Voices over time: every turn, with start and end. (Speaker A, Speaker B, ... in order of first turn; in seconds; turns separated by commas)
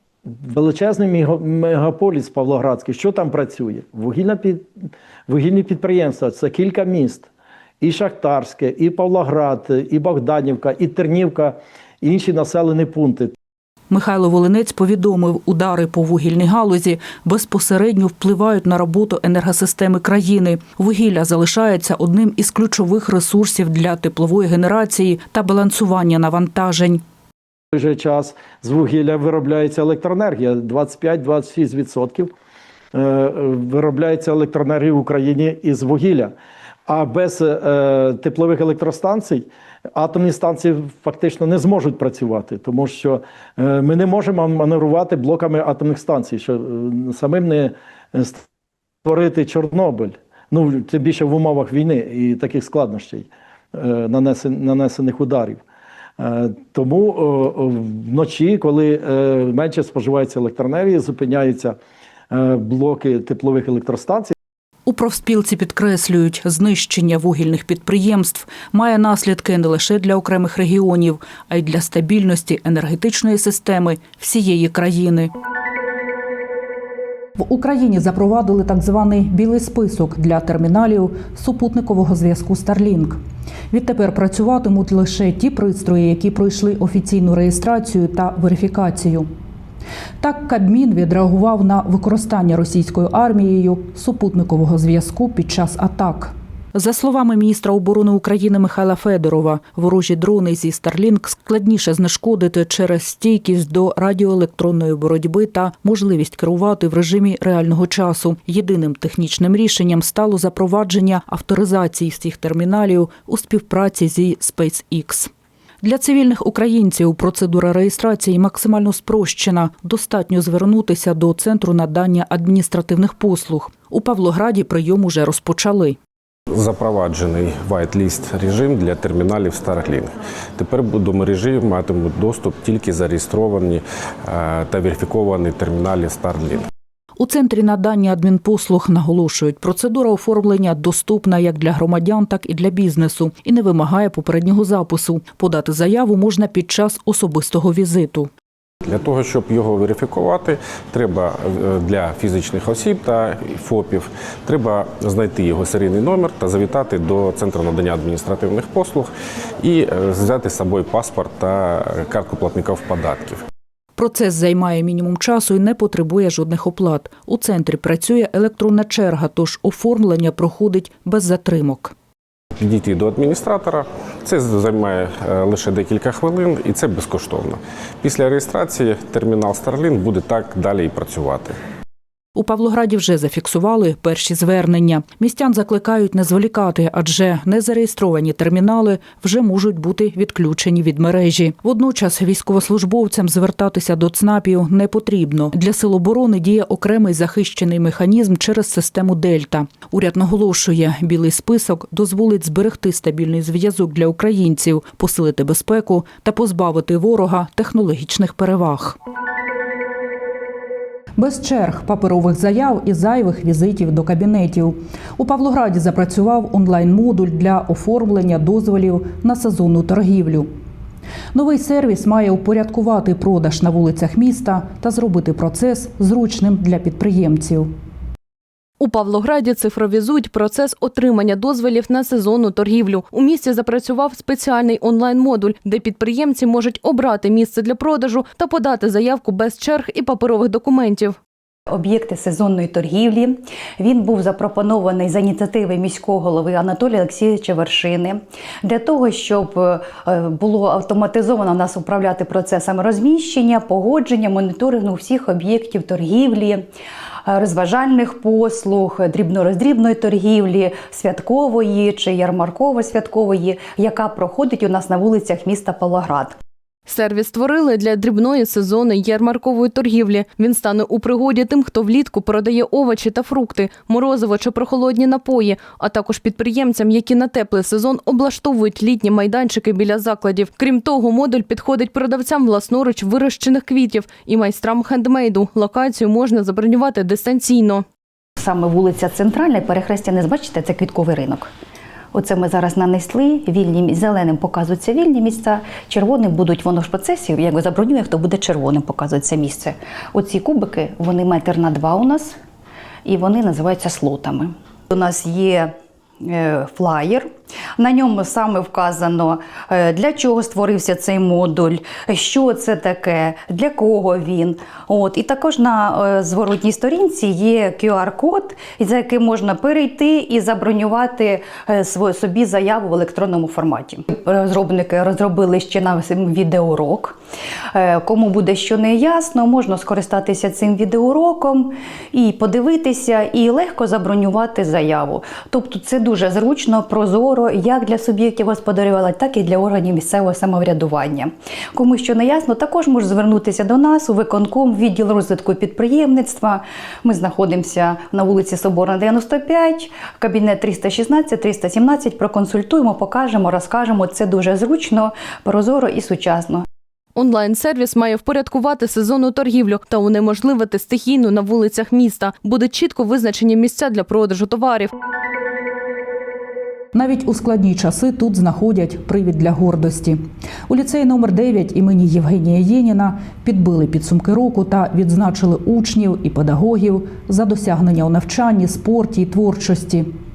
Speaker A: 0.4-4.7, Speaker A: 5.3-7.3, Speaker A: 7.8-13.3, Speaker B: 13.9-27.0, Speaker A: 27.7-32.3, Speaker A: 32.9-36.3, Speaker A: 36.9-48.4, Speaker A: 49.0-55.6, Speaker A: 56.2-61.8, Speaker A: 62.3-64.3, Speaker B: 64.8-75.3, Speaker B: 77.4-83.2, Speaker B: 83.7-89.3, Speaker B: 90.2-115.3, Speaker B: 115.8-126.0, Speaker C: 126.5-136.7, Speaker B: 137.2-148.3, Speaker C: 148.9-163.4, Speaker B: 163.9-171.9, Speaker C: 172.6-181.5, Speaker B: 182.3-209.0, Speaker B: 211.2-220.5, Speaker B: 221.3-227.7, Speaker D: 228.8-241.2, Speaker E: 241.7-256.6, Speaker E: 257.2-266.4, Speaker D: 266.9-287.8, Speaker E: 288.4-291.5, Speaker E: 292.1-302.4, Speaker E: 303.1-305.7, Speaker E: 306.2-327.2, Speaker E: 327.7-356.6, Speaker D: 357.1-364.9, Speaker B: 366.9-380.1